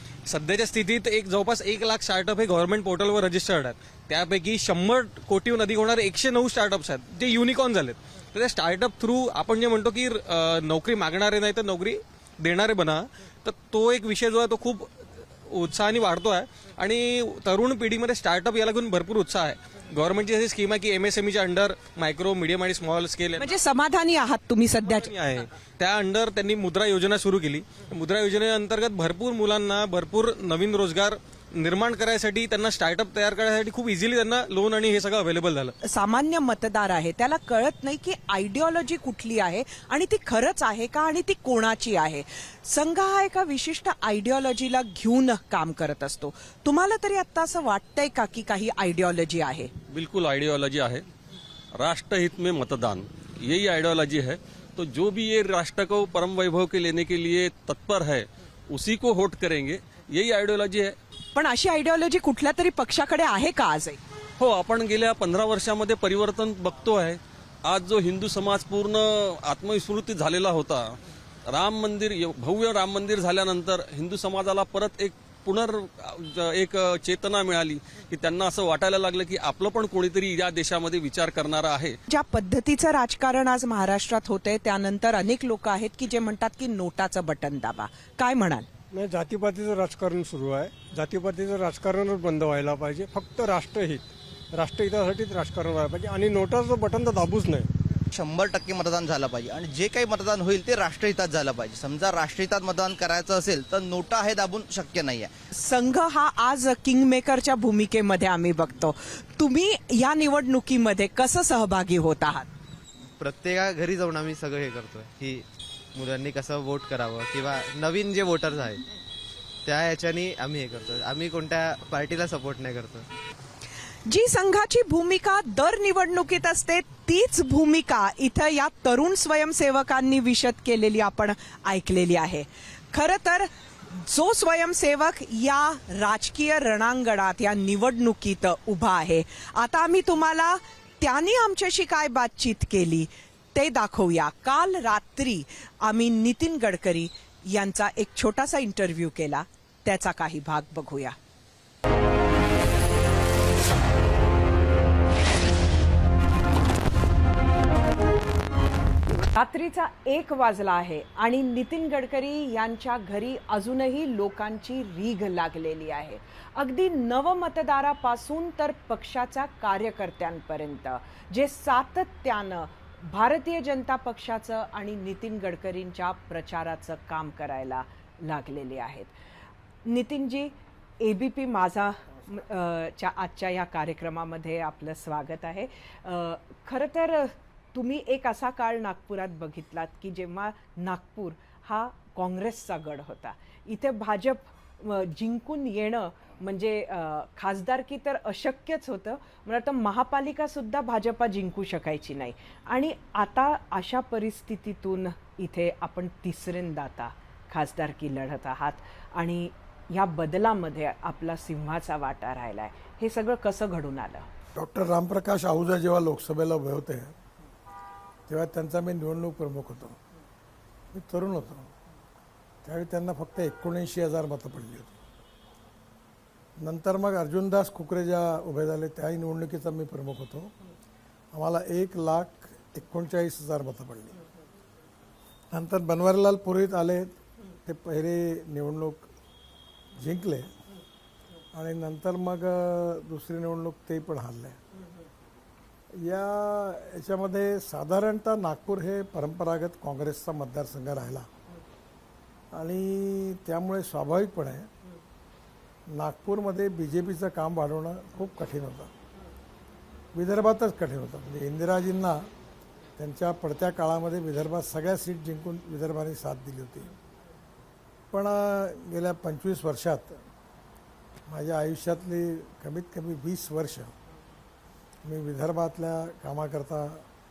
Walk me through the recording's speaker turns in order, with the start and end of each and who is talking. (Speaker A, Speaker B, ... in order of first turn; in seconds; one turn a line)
Speaker A: 0.3-14.8
Speaker A: 15.5-23.4
Speaker B: 23.4-25.2
Speaker A: 25.3-35.7
Speaker B: 35.8-49.7
Speaker C: 49.9-51.0
Speaker C: 51.8-60.9
Speaker B: 61.3-64.0
Speaker C: 64.4-71.0
Speaker C: 71.5-81.9
Speaker B: 82.1-88.7
Speaker D: 88.9-97.7
Speaker E: 98.1-105.3
Speaker B: 105.5-112.5
Speaker F: 113.2-115.4
Speaker F: 116.0-118.8
Speaker F: 119.7-123.0
Speaker B: 124.1-151.2
Speaker B: 159.2-179.1
Speaker B: 179.8-214.3
Speaker G: 214.6-217.1
Speaker G: 218.3-220.0
Speaker G: 220.9-221.7
Speaker G: 222.6-225.0
Speaker G: 226.6-230.5
Speaker G: 231.3-234.2
Speaker G: 235.5-239.1
Speaker G: 240.0-240.5
Speaker G: 241.5-244.6
Speaker G: 245.9-251.3
Speaker G: 252.5-254.7
Speaker G: 255.9-258.9
Speaker G: 260.1-262.3
Speaker G: 263.0-266.9
Speaker G: 268.1-270.2
Speaker G: 271.3-273.9
Speaker G: 275.0-277.1